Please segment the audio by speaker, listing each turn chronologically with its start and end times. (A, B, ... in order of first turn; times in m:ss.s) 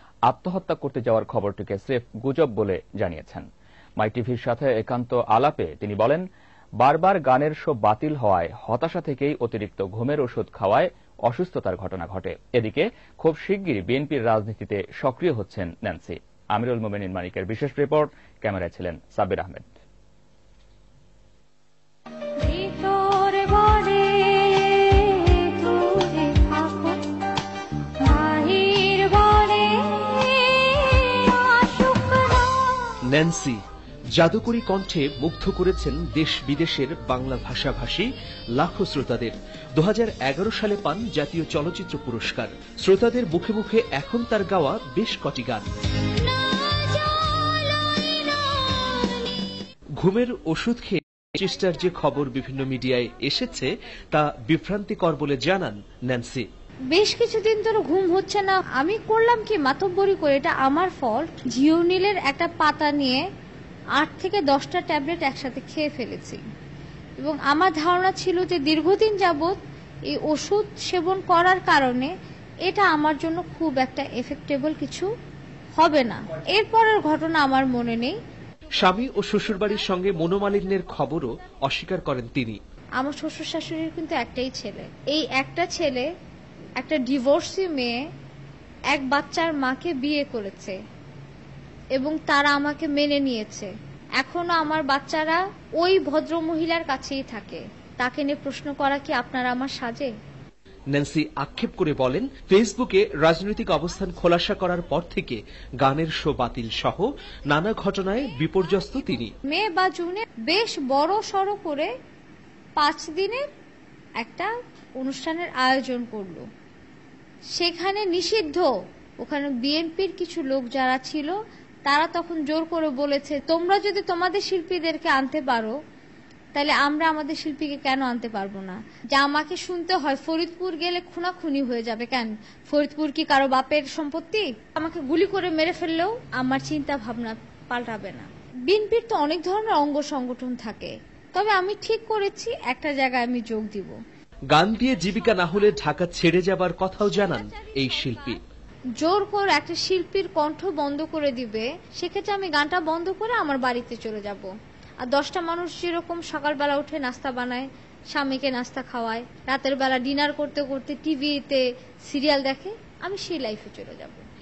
0:00.3-0:03.5 A
0:04.0-0:06.2 A
0:06.8-0:19.7 A
0:22.4-0:27.1 B
0:28.0-0:32.8 B
0:33.1-0:33.6 C
0:34.2-0:45.6 C
0:46.1-0:49.1 B
0:50.0-0:56.4 C
0:56.9-1:03.2 B
1:04.0-1:06.4 B
1:07.2-1:09.6 B
1:10.1-1:12.1 B
1:12.7-1:15.1 B
1:15.8-1:18.1 B
1:18.8-1:22.6 C
1:23.0-1:26.1 B
1:26.8-1:28.0 B
1:28.9-1:30.8 B
1:32.0-1:33.7 B
1:34.2-1:40.1 B
1:40.9-1:49.3 C
1:49.5-1:51.9 B
1:52.8-1:53.4 B
1:54.2-1:54.5 B
1:55.0-1:56.4 B
1:57.6-1:58.7 B
1:59.2-2:01.3 B
2:01.9-2:05.7 B
2:06.5-2:23.9 B
2:24.5-2:28.4 C
2:24.8-2:25.8 B
2:27.0-2:28.4 B
2:29.0-2:34.5 B
2:35.0-2:44.2 B